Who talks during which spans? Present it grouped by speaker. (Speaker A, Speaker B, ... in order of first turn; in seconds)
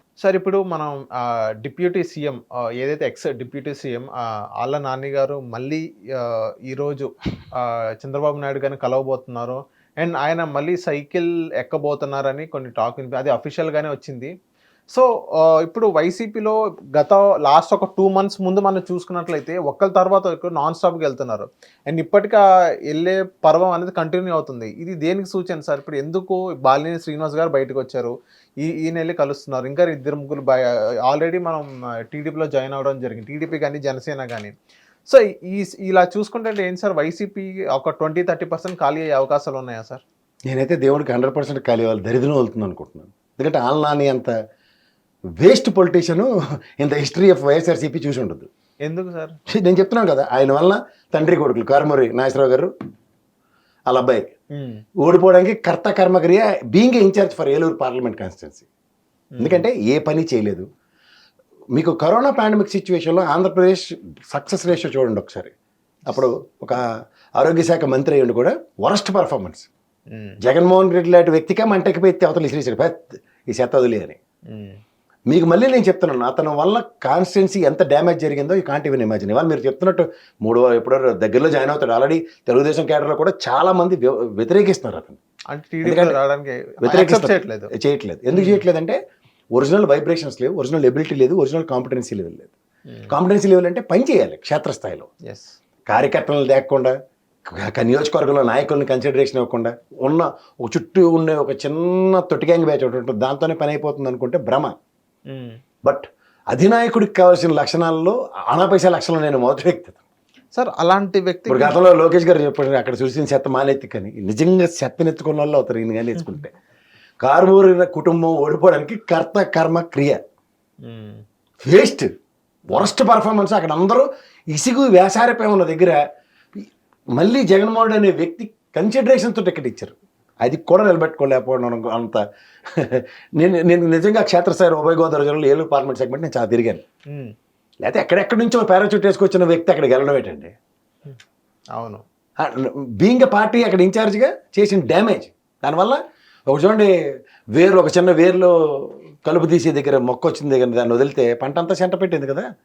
Speaker A: 0.2-14.3, 14.9-34.5, 35.1-40.0, 48.9-49.4, 54.5-54.8, 59.4-59.6, 70.1-70.4, 74.5-74.8, 85.5-87.7, 88.3-88.6, 95.3-95.6, 105.3-105.6, 110.5-111.8, 120.8-121.2, 141.8-142.0
Speaker B: 40.5-44.3, 45.4-46.3, 46.8-48.5, 49.5-52.7, 53.9-54.3, 55.0-58.7, 59.4-60.7, 61.8-65.5, 66.1-66.8, 67.4-69.7, 70.4-74.2, 75.3-85.2, 85.8-86.2, 86.8-89.0, 89.5-92.5, 93.1-95.1, 95.9-97.0, 97.5-104.8, 105.8-110.0, 111.5-116.5, 117.2-120.2, 121.6-122.1, 122.7-126.0, 127.2-136.8, 137.8-140.5, 142.4-146.9, 147.6-152.5